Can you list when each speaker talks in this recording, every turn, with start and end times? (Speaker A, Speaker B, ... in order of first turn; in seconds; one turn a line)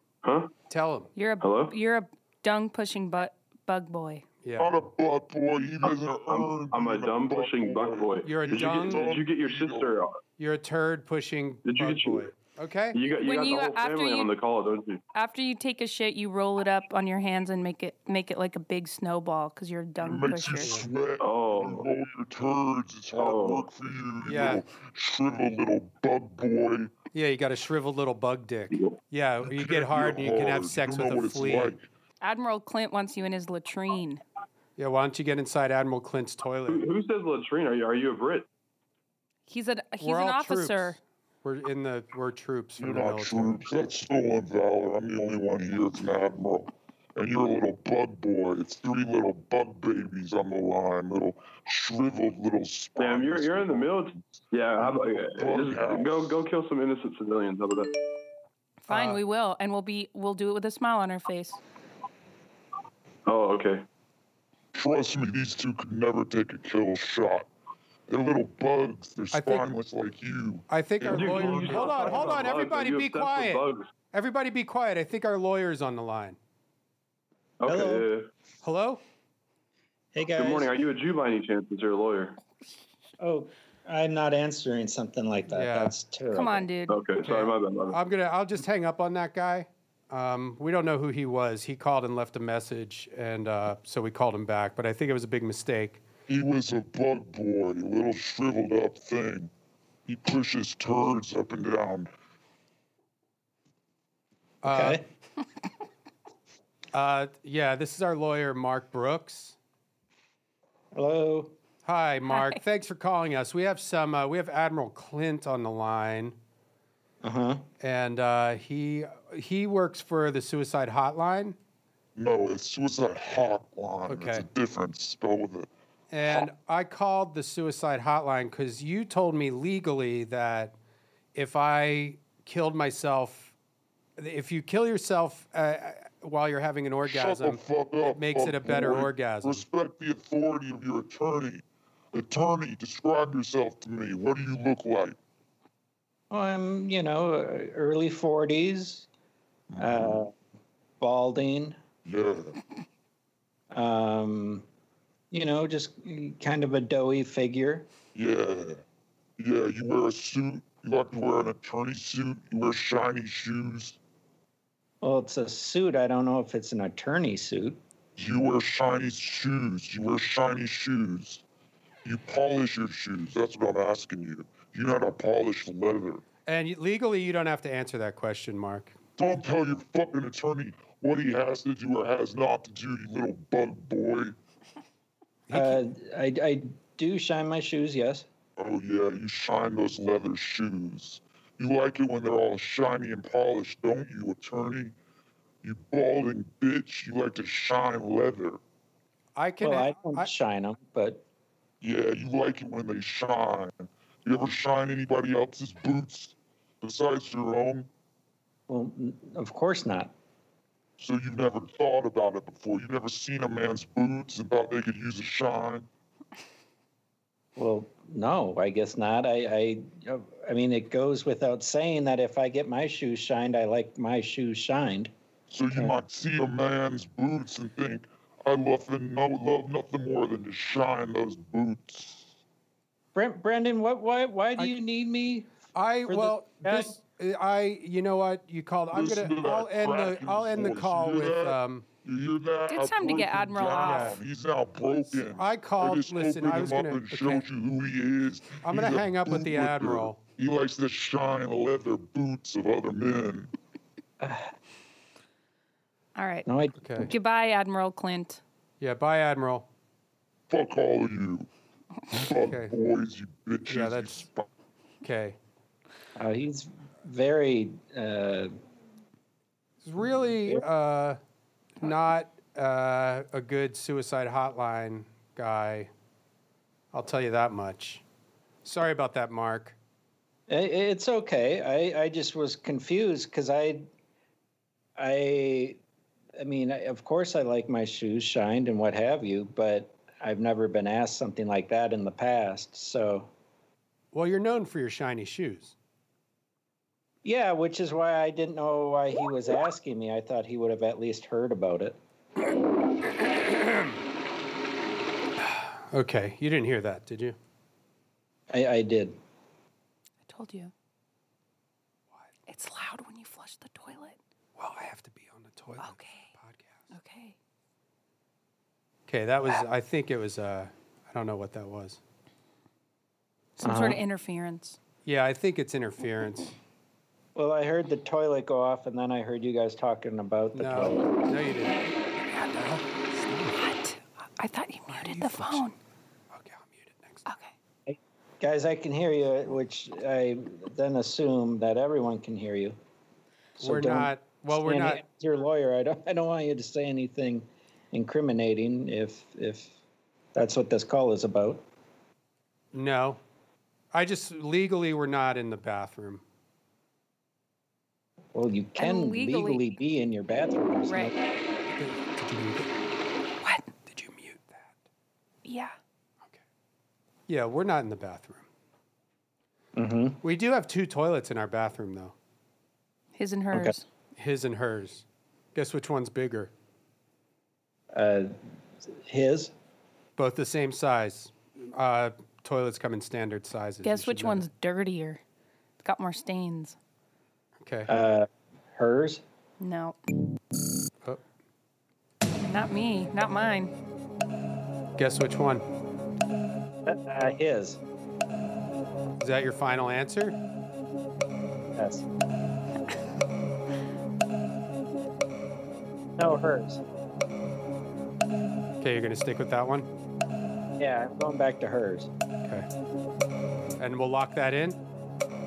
Speaker A: 0.2-0.5
Speaker B: 0.7-1.1
Speaker C: 1.1-4.2
Speaker A: 1.4-1.7
Speaker B: 4.4-4.7
Speaker D: 4.6-10.0
Speaker A: 6.3-10.2
Speaker B: 8.2-9.1
Speaker B: 10.4-13.0
Speaker A: 11.6-12.3
Speaker A: 12.9-15.0
Speaker C: 13.2-14.3
Speaker C: 15.1-20.8
Speaker D: 20.0-26.9
Speaker B: 20.6-20.9
Speaker A: 21.2-21.9
Speaker A: 23.1-23.7
Speaker B: 24.2-24.6
Speaker B: 27.1-31.7
Speaker A: 28.7-29.0
Speaker D: 29.4-31.8
Speaker C: 32.2-34.2
Speaker B: 34.8-36.9
Speaker A: 36.7-38.5
Speaker C: 39.5-41.0
Speaker B: 40.0-43.6
Speaker D: 42.8-56.4
Speaker A: 53.0-57.9
Speaker C: 58.8-61.6
Speaker B: 58.9-59.2
Speaker A: 63.2-63.8
Speaker D: 64.7-67.5
Speaker D: 68.1-72.5
Speaker B: 69.3-69.7
Speaker B: 70.7-76.4
Speaker A: 71.1-73.9
Speaker A: 77.6-78.3
Speaker E: 77.6-78.1
Speaker B: 78.6-79.0
Speaker E: 80.1-80.7
Speaker A: 80.3-82.4
Speaker E: 83.2-86.7
Speaker B: 85.5-85.9
Speaker C: 86.3-87.0
Speaker A: 86.9-88.0
Speaker B: 87.2-96.0
Speaker D: 96.3-99.5
Speaker D: 100.0-102.1
Speaker B: 104.6-105.0
Speaker E: 104.6-105.0
Speaker B: 106.9-109.5
Speaker E: 110.9-111.5
Speaker B: 111.8-116.4
Speaker C: 112.3-112.6
Speaker E: 117.2-117.6
Speaker B: 117.8-121.5
Speaker D: 122.2-125.7
Speaker B: 124.1-124.4
Speaker B: 126.1-130.7
Speaker B: 131.3-133.5
Speaker B: 134.2-139.6
Speaker D: 137.0-145.2
Speaker E: 146.3-149.1
Speaker D: 149.7-150.2
Speaker E: 149.8-150.3
Speaker E: 151.0-151.8
Speaker D: 152.0-152.6
Speaker E: 153.7-154.6
Speaker E: 155.3-157.9
Speaker D: 158.1-158.8
Speaker D: 159.4-164.0
Speaker E: 165.0-167.8
Speaker D: 168.2-171.4
Speaker D: 172.0-176.2
Speaker B: 176.4-178.9
Speaker D: 179.2-184.3
Speaker B: 185.5-185.8
Speaker E: 185.5-188.3
Speaker D: 188.6-194.9
Speaker D: 195.6-198.6
Speaker B: 199.3-200.3
Speaker E: 199.6-201.2
Speaker D: 201.8-207.9
Speaker E: 208.7-210.1
Speaker D: 211.0-215.9
Speaker E: 217.6-225.1
Speaker D: 225.5-232.3
Speaker E: 233.1-235.5
Speaker B: 235.7-241.9
Speaker E: 236.1-237.0
Speaker D: 238.9-253.5
Speaker C: 242.7-244.1
Speaker B: 243.8-244.2
Speaker B: 245.2-247.4
Speaker B: 248.6-250.2
Speaker E: 254.2-254.5
Speaker C: 256.1-258.4
Speaker E: 256.4-257.1
Speaker B: 256.8-257.1
Speaker B: 258.8-259.6
Speaker D: 260.5-261.5
Speaker D: 262.1-264.5
Speaker B: 262.4-262.7
Speaker B: 263.7-264.2
Speaker B: 265.0-265.4
Speaker E: 266.2-268.5
Speaker B: 269.8-271.2
Speaker B: 271.8-275.9
Speaker B: 276.9-278.0
Speaker B: 278.6-279.8
Speaker E: 280.5-283.9
Speaker E: 285.0-285.8
Speaker E: 286.4-293.3
Speaker B: 294.1-295.7
Speaker E: 297.2-302.0
Speaker B: 303.2-304.0
Speaker B: 305.4-307.4
Speaker E: 308.5-309.2
Speaker C: 310.2-310.7
Speaker C: 312.5-314.2
Speaker B: 314.6-316.8
Speaker C: 315.8-316.3
Speaker C: 316.9-317.4
Speaker B: 319.1-322.0
Speaker C: 323.6-324.8
Speaker E: 323.6-324.0
Speaker B: 325.0-326.5
Speaker E: 327.3-331.1
Speaker B: 330.5-331.9
Speaker B: 332.4-333.6
Speaker C: 333.5-335.8
Speaker B: 334.9-335.6
Speaker B: 336.3-337.2
Speaker C: 337.2-337.5
Speaker E: 337.9-342.8
Speaker E: 343.6-349.7
Speaker B: 343.6-345.0
Speaker E: 350.3-351.6
Speaker B: 352.7-353.2
Speaker B: 353.9-356.2
Speaker E: 358.3-361.1
Speaker C: 358.8-359.7
Speaker C: 360.9-361.1
Speaker B: 361.8-362.7
Speaker C: 363.4-363.7
Speaker B: 363.8-364.7
Speaker C: 365.4-365.7
Speaker B: 367.3-368.4
Speaker E: 369.8-370.2
Speaker B: 370.2-372.1
Speaker C: 373.1-373.8
Speaker B: 374.2-376.5
Speaker E: 377.9-378.4
Speaker E: 379.1-379.5
Speaker B: 380.2-384.5
Speaker C: 383.8-385.2
Speaker C: 385.8-386.8
Speaker B: 387.6-387.9
Speaker E: 387.9-389.2
Speaker C: 389.6-390.0
Speaker C: 392.4-393.7
Speaker B: 395.0-395.6
Speaker E: 396.9-397.8
Speaker B: 399.2-400.4
Speaker E: 401.8-402.0
Speaker E: 406.2-406.8
Speaker B: 408.8-409.9
Speaker E: 410.8-412.1
Speaker B: 413.8-414.8